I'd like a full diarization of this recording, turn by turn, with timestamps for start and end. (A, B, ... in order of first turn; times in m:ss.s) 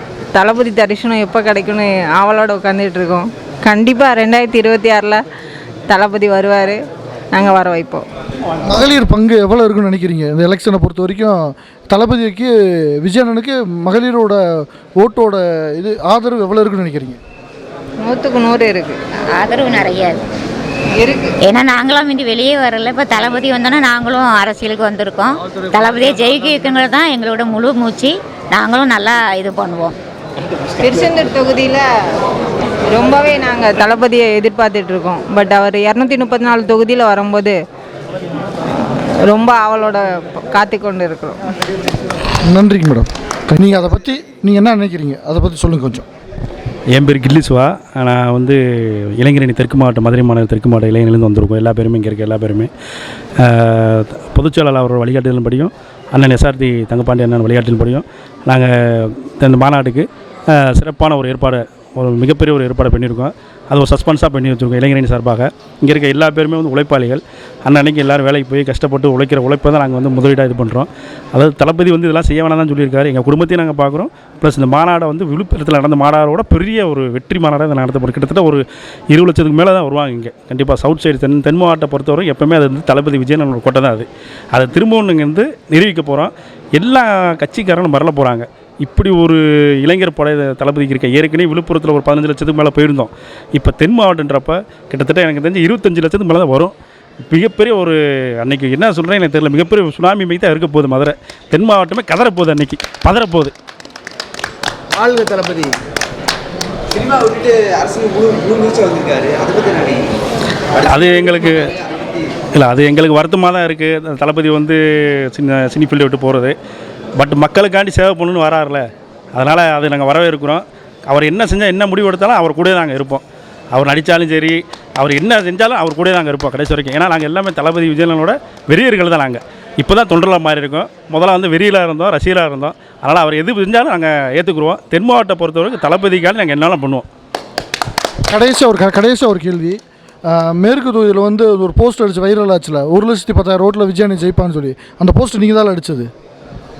0:00.3-0:05.2 A
0:05.9-0:06.8 A
0:07.3-0:08.0 A
0:08.6-0:17.2 B
0:18.0-0:19.0 A
0:19.3-0:20.2 C
0:21.0-0:21.4 A
0:21.4-0:30.0 C
0:30.8-0:31.9 A
0:32.9-0:37.6 A
0:39.3-0:41.4 A
0:42.4-0:46.0 B
0:46.9-0:52.7 D
0:53.4-1:36.7 D
1:37.3-1:43.5 D
1:45.0-1:45.7 E
1:47.0-1:50.1 E
1:50.8-1:52.3 E
1:50.8-1:51.8 D
1:52.6-1:56.6 D
1:57.2-2:03.2 D
2:03.7-2:17.1 D
2:18.3-2:26.1 B